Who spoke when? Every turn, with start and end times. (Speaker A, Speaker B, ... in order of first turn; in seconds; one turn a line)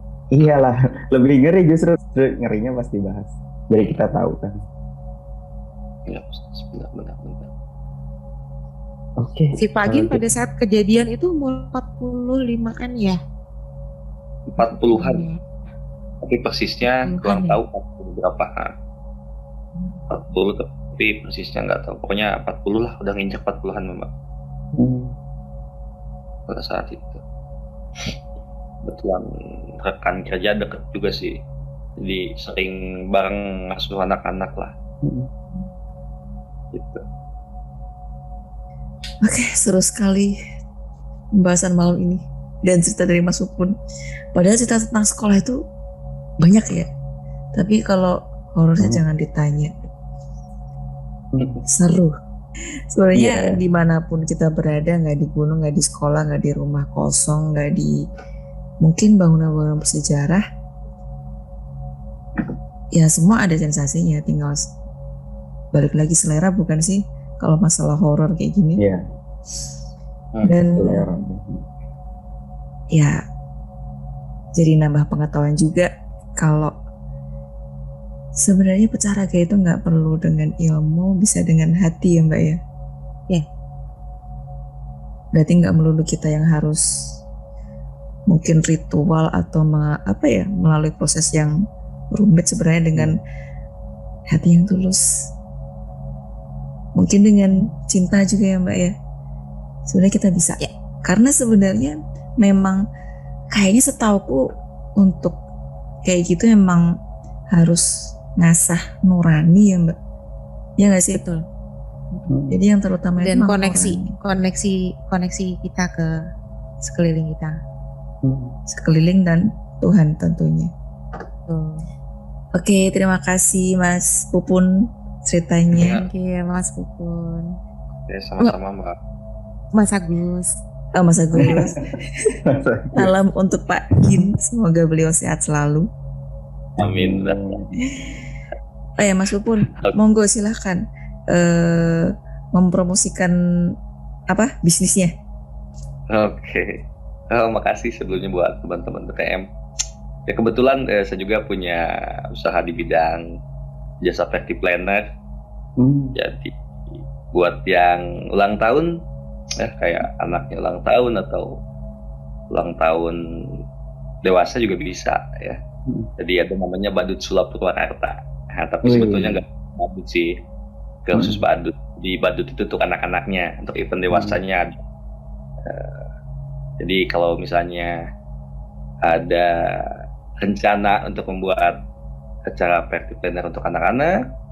Speaker A: 0.3-4.5
Speaker B: 6.1-7.5
Speaker A: 9.2-10.2
Speaker C: 9.6-13.2
Speaker B: 14.5-15.2
Speaker C: 14.6-15.4
Speaker B: 16.2-18.7
Speaker C: 17.0-17.6
Speaker B: 20.1-24.1
Speaker A: 24.8-25.1
Speaker B: 26.5-27.2
Speaker B: 28.8-29.3
Speaker B: 29.8-31.4
Speaker B: 32.0-34.7
Speaker A: 35.0-35.3
Speaker B: 36.7-37.0
Speaker D: 39.2-40.4
Speaker D: 41.4-43.7
Speaker D: 44.4-45.6
Speaker D: 46.4-46.9
Speaker D: 47.5-49.7
Speaker A: 51.3-51.6
Speaker D: 51.7-52.1
Speaker D: 52.9-57.9
Speaker A: 53.1-53.6
Speaker D: 58.8-60.4
Speaker D: 63.0-64.7
Speaker D: 65.7-68.8
Speaker A: 68.8-69.0
Speaker D: 70.5-71.1
Speaker A: 70.8-71.6
Speaker D: 72.9-73.2
Speaker D: 74.6-75.9
Speaker D: 76.4-76.7
Speaker D: 78.4-82.6
Speaker D: 85.3-86.8
Speaker D: 88.3-91.5
Speaker D: 92.1-93.2
Speaker D: 94.3-95.0
Speaker D: 97.0-98.9
Speaker D: 99.9-102.8
Speaker D: 103.5-104.4
Speaker D: 105.0-105.4
Speaker D: 106.0-106.8
Speaker D: 107.5-109.9
Speaker D: 110.8-111.2
Speaker C: 111.1-111.5
Speaker A: 112.3-112.6
Speaker D: 112.5-114.2
Speaker C: 113.2-116.1
Speaker C: 116.8-117.6
Speaker A: 118.2-118.5
Speaker D: 118.7-120.7
Speaker C: 121.5-121.8
Speaker D: 122.6-124.7
Speaker D: 125.2-126.0
Speaker C: 125.8-127.6
Speaker B: 125.8-126.1
Speaker B: 128.1-129.0
Speaker C: 129.8-130.6
Speaker D: 131.0-132.3
Speaker A: 131.4-131.8
Speaker A: 132.4-133.1
Speaker D: 133.0-135.9
Speaker B: 136.8-137.6
Speaker A: 136.8-137.7
Speaker D: 139.0-143.3
Speaker D: 144.3-145.1
Speaker B: 146.1-146.8
Speaker B: 147.3-149.5
Speaker B: 150.3-153.2
Speaker B: 154.0-155.1
Speaker A: 155.8-156.2
Speaker B: 156.2-158.9
Speaker B: 159.6-161.5
Speaker B: 162.5-163.2
Speaker B: 164.2-165.6
Speaker B: 166.2-170.3
Speaker A: 168.8-169.4
Speaker B: 171.1-174.8
Speaker A: 171.2-171.4
Speaker B: 175.7-176.1
Speaker B: 176.8-177.9
Speaker B: 179.0-179.8
Speaker B: 180.4-181.8
Speaker B: 182.5-184.1